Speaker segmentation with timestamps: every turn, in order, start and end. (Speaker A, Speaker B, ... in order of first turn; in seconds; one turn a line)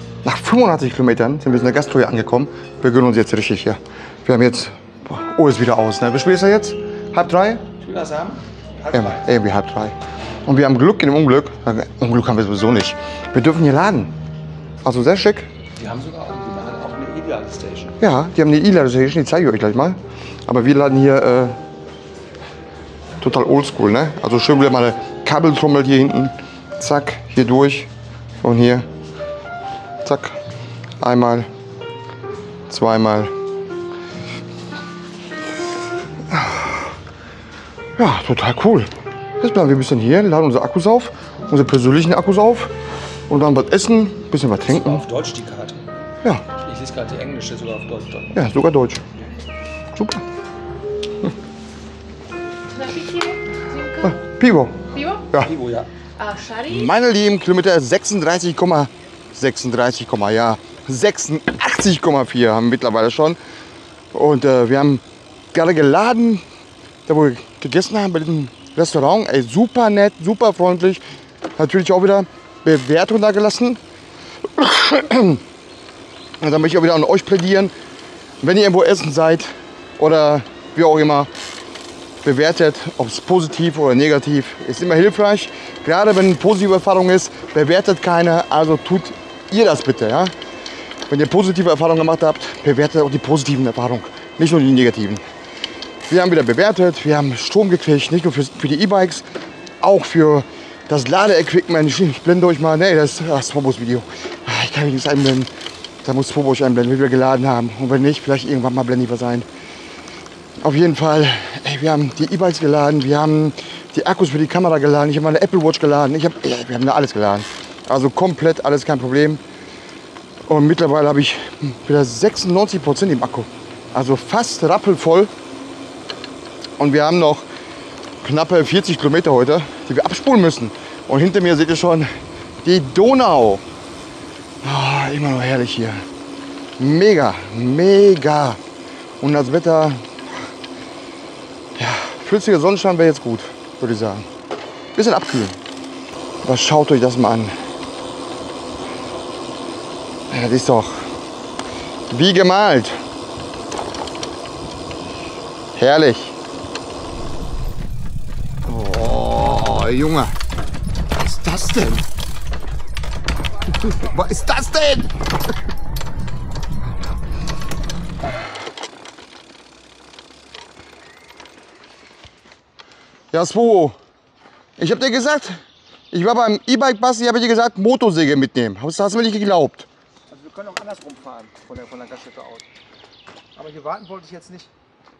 Speaker A: 0.2-7.7
Speaker B: 7.8-9.3
Speaker A: 8.9-14.2
Speaker A: 14.8-15.5
Speaker B: 15.8-17.9
Speaker A: 18.0-21.6
Speaker A: 23.2-27.9
Speaker A: 28.4-28.9
Speaker A: 30.0-30.4
Speaker A: 31.0-31.5
Speaker A: 32.7-33.3
Speaker A: 36.3-36.9
Speaker A: 38.0-42.7
Speaker A: 43.3-45.0
Speaker B: 44.6-45.9
Speaker B: 46.6-48.4
Speaker A: 48.3-49.1
Speaker A: 49.9-50.2
Speaker C: 52.7-54.2
Speaker A: 54.1-54.8
Speaker C: 54.9-55.3
Speaker B: 55.4-55.9
Speaker C: 56.1-56.9
Speaker A: 56.7-63.4
Speaker A: 64.1-65.0
Speaker A: 65.5-66.4
Speaker A: 67.0-71.0
Speaker A: 71.6-73.8
Speaker A: 74.5-75.4
Speaker A: 76.4-77.7
Speaker A: 78.4-81.3
Speaker A: 82.2-90.3
Speaker A: 91.1-95.2
Speaker A: 96.1-99.3
Speaker A: 99.8-105.5
Speaker A: 106.0-109.5
Speaker A: 110.6-119.4
Speaker A: 120.5-125.3
Speaker A: 126.8-127.5
Speaker A: 128.2-132.1
Speaker A: 132.6-133.6
Speaker A: 134.6-136.1
Speaker A: 136.8-138.6
Speaker A: 139.2-140.3
Speaker A: 141.8-144.3
Speaker A: 144.9-145.6
Speaker A: 146.4-147.5
Speaker A: 150.3-151.1
Speaker A: 152.1-153.0
Speaker A: 155.7-156.3
Speaker A: 158.7-160.3
Speaker A: 161.2-162.1
Speaker A: 163.7-165.2
Speaker A: 173.3-174.0
Speaker A: 174.8-175.6
Speaker A: 176.1-179.9
Speaker B: 180.3-182.7
Speaker B: 183.5-184.7